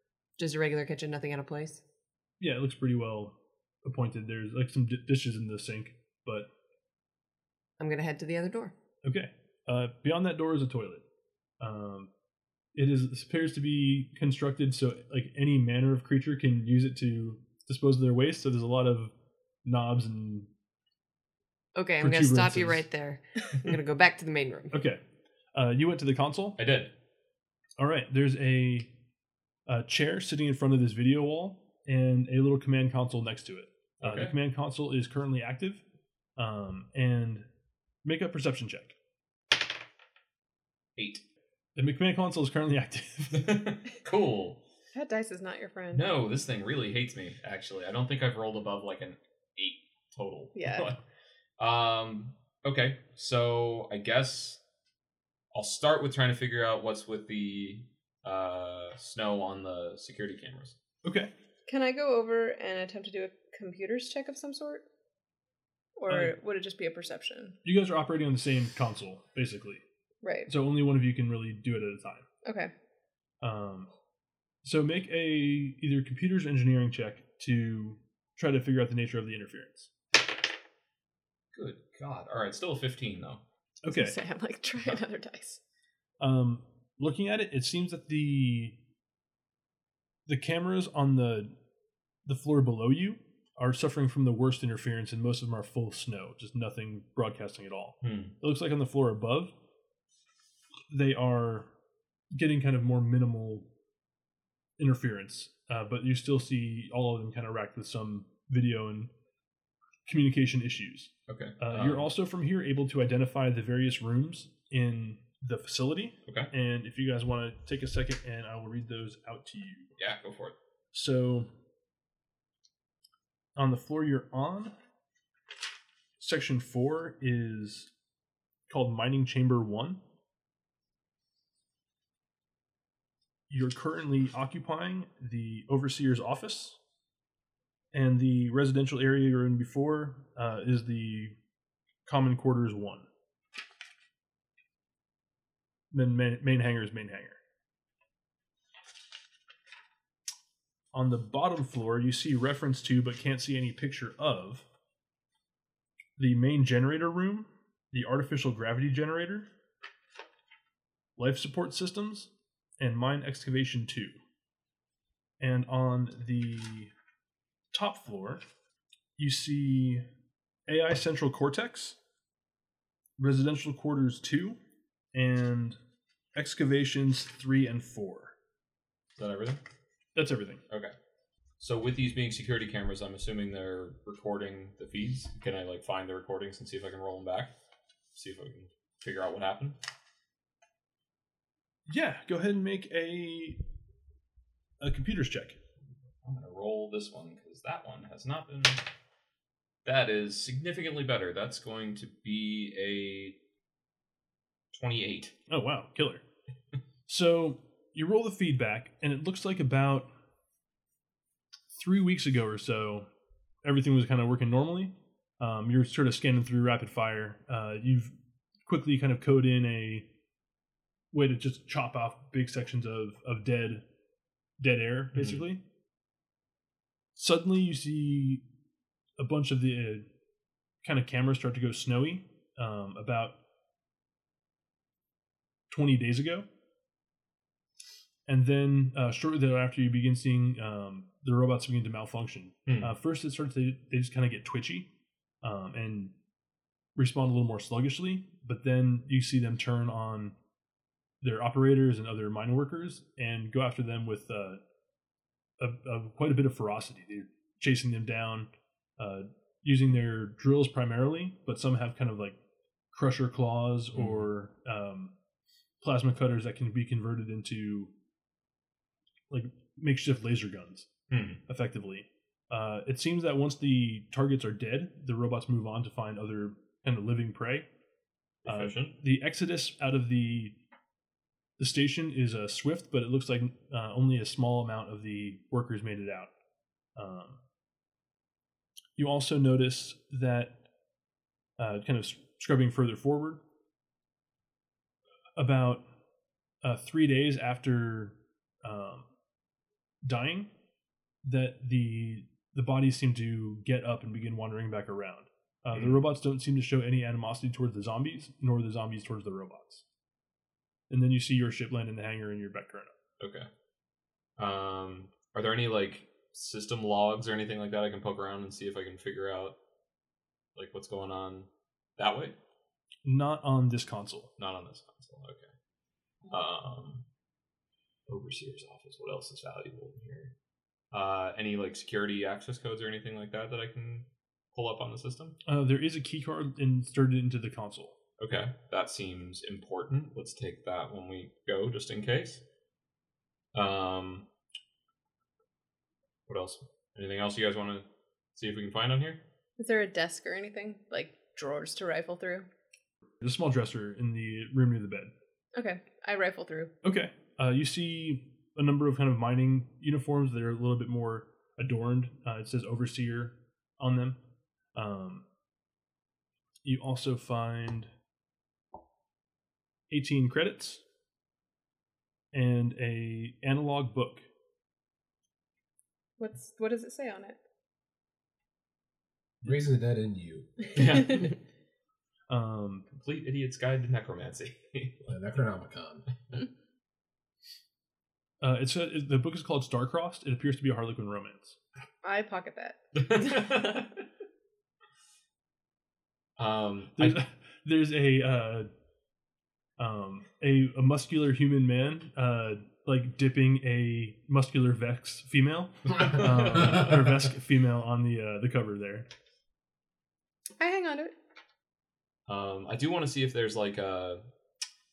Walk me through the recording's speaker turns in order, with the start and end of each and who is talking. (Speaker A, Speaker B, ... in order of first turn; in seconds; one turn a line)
Speaker A: 0.4-1.8
Speaker B: 2.4-6.5
Speaker A: 7.8-8.7
Speaker B: 9.0-11.0
Speaker B: 11.6-12.1
Speaker B: 12.7-19.1
Speaker B: 19.6-20.5
Speaker A: 21.7-24.7
Speaker B: 22.0-22.8
Speaker B: 24.7-25.0
Speaker B: 25.5-26.6
Speaker C: 26.6-26.9
Speaker B: 27.8-28.9
Speaker B: 29.7-35.8
Speaker C: 34.0-34.3
Speaker B: 36.4-37.5
Speaker B: 38.0-39.0
Speaker C: 41.0-41.2
Speaker B: 41.8-43.6
Speaker C: 43.3-44.6
Speaker D: 44.9-46.1
Speaker C: 45.9-51.0
Speaker D: 50.5-51.0
Speaker C: 51.6-54.6
Speaker C: 55.5-60.7
Speaker B: 61.0-61.3
Speaker D: 61.7-64.8
Speaker D: 66.0-67.6
Speaker B: 66.1-66.3
Speaker B: 67.6-69.8
Speaker D: 70.2-70.5
Speaker B: 70.5-72.2
Speaker D: 72.5-72.7
Speaker B: 73.4-73.9
Speaker B: 74.6-79.9
Speaker C: 81.5-83.4
Speaker B: 83.9-84.2
Speaker D: 83.9-85.6
Speaker B: 86.2-88.8
Speaker B: 90.3-91.5
Speaker B: 92.3-99.5
Speaker C: 98.0-98.3
Speaker B: 100.9-101.7
Speaker B: 102.3-103.7
Speaker B: 104.8-109.1
Speaker B: 110.0-120.0
Speaker C: 111.3-112.1
Speaker C: 120.0-120.5
Speaker B: 120.9-121.5
Speaker B: 123.5-124.7
Speaker B: 126.2-127.9
Speaker B: 128.7-130.0
Speaker B: 133.5-136.8
Speaker B: 137.9-141.4
Speaker B: 142.1-143.1
Speaker B: 145.9-147.4
Speaker B: 150.9-154.6
Speaker B: 156.2-159.5
Speaker B: 161.2-164.2
Speaker B: 165.4-166.9
Speaker B: 167.7-168.4
Speaker B: 169.2-170.1
Speaker B: 170.7-172.0
Speaker B: 173.2-174.6
Speaker B: 175.1-175.8
Speaker B: 176.4-178.3
Speaker C: 179.2-179.6
Speaker B: 180.2-180.6
Speaker C: 181.6-187.5
Speaker C: 188.1-189.8
Speaker B: 191.9-193.6
Speaker B: 194.8-195.6
Speaker C: 196.2-198.8
Speaker C: 199.8-203.4
Speaker C: 204.7-205.3
Speaker B: 205.5-206.2
Speaker B: 207.1-210.1
Speaker B: 211.7-213.1
Speaker B: 213.6-218.1
Speaker B: 218.7-220.1
Speaker B: 221.1-223.8
Speaker B: 224.6-225.6
Speaker C: 225.1-225.4
Speaker B: 227.2-228.4
Speaker B: 229.2-230.1
Speaker B: 230.8-233.4
Speaker B: 235.7-236.5
Speaker B: 238.3-244.9
Speaker C: 242.7-242.9
Speaker B: 245.4-246.1
Speaker B: 246.9-250.4
Speaker B: 251.2-254.6
Speaker B: 255.6-262.4
Speaker B: 262.9-265.1
Speaker C: 263.9-264.2
Speaker B: 265.8-267.9
Speaker B: 269.3-270.9
Speaker C: 271.1-271.4
Speaker B: 271.5-277.7
Speaker C: 278.4-278.9
Speaker B: 278.4-280.6
Speaker B: 281.6-286.3
Speaker B: 287.0-287.4
Speaker B: 289.0-290.6
Speaker B: 291.6-293.4
Speaker B: 295.4-295.8
Speaker B: 296.6-299.1
Speaker B: 300.0-300.5
Speaker B: 301.2-309.8
Speaker C: 305.7-306.0
Speaker B: 310.9-312.9
Speaker C: 313.2-313.5
Speaker C: 314.4-319.6
Speaker C: 320.6-322.4
Speaker B: 323.1-324.3
Speaker C: 324.4-325.5
Speaker C: 326.3-327.1
Speaker C: 328.1-330.3
Speaker C: 330.9-335.4
Speaker B: 335.4-337.9
Speaker C: 338.2-342.4
Speaker C: 343.5-344.3
Speaker C: 346.3-349.2
Speaker D: 349.6-352.5
Speaker B: 353.2-355.1
Speaker D: 355.6-356.7
Speaker B: 356.8-364.2
Speaker B: 364.7-365.2
Speaker B: 366.6-367.9
Speaker B: 369.9-370.8
Speaker B: 372.3-374.2
Speaker D: 376.2-377.4
Speaker E: 379.4-381.1
Speaker C: 380.7-381.3
Speaker B: 382.3-382.9
Speaker C: 382.9-385.1
Speaker E: 385.1-386.1
Speaker B: 388.4-391.6
Speaker D: 392.0-393.6
Speaker C: 392.9-394.0
Speaker C: 396.4-397.2
Speaker B: 397.0-398.7
Speaker B: 399.8-409.1
Speaker C: 406.0-406.8
Speaker D: 410.6-411.1
Speaker C: 412.3-414.2